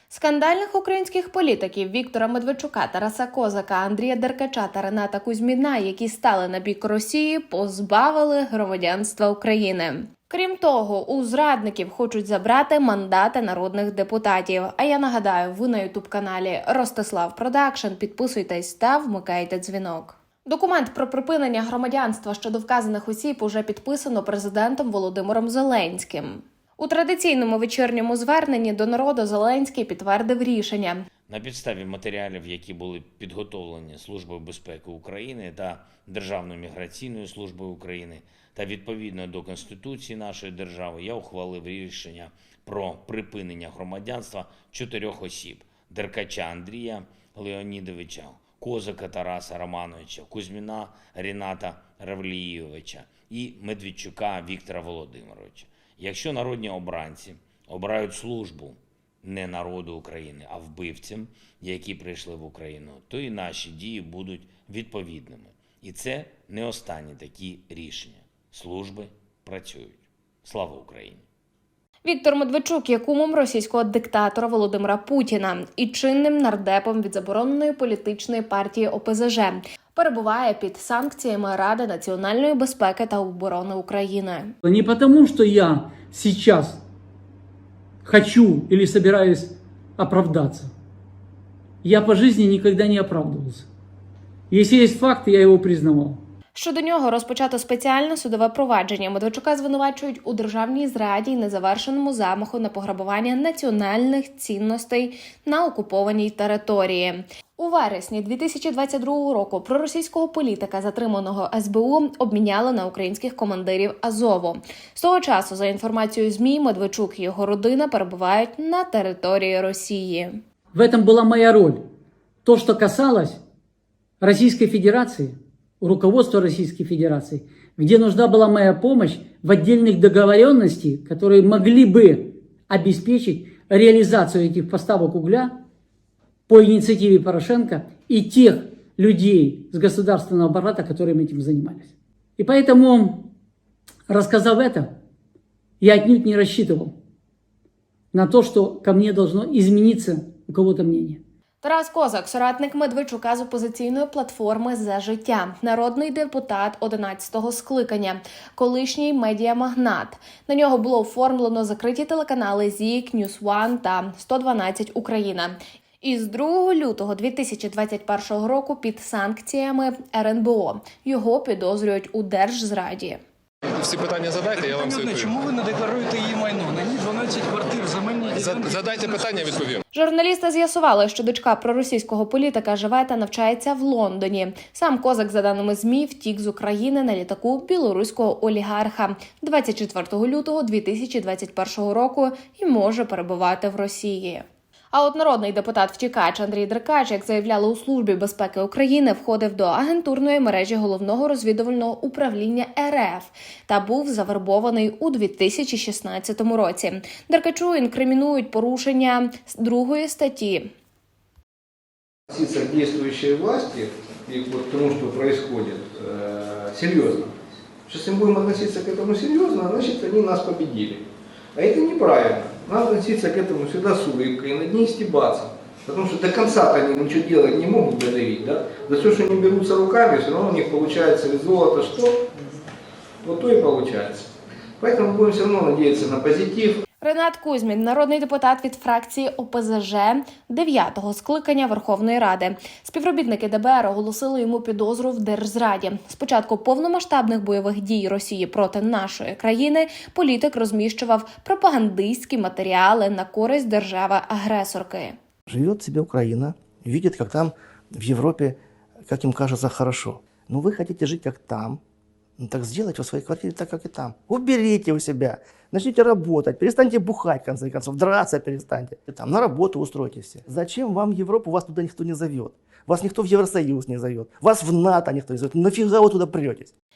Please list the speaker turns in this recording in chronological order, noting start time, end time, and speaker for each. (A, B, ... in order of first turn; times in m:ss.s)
0:00.1-0:31.0 A
0:31.3-1:11.2 B
1:12.0-1:24.5 A
1:24.6-1:26.8 C
1:28.0-1:30.7 C
1:31.8-1:33.7 C
1:34.5-1:36.2 C
1:36.6-2:00.4 A
2:00.7-2:01.8 C
2:02.4-2:03.4 C
2:04.2-2:15.6 C
2:16.5-2:23.3 C
2:24.1-2:25.0 C
2:25.8-2:27.0 C
2:28.1-2:31.2 C
2:31.6-2:53.2 A
2:53.8-2:55.4 D
2:54.9-2:58.6 E
2:58.3-2:59.8 D
2:59.9-3:30.7 A
3:32.3-3:37.3 F
3:37.9-3:41.0 F
3:41.6-3:52.2 F
3:53.2-3:54.3 F
3:54.8-3:56.8 F
3:57.0-4:15.2 A
4:15.5-4:21.8 G
4:22.4-4:36.7 G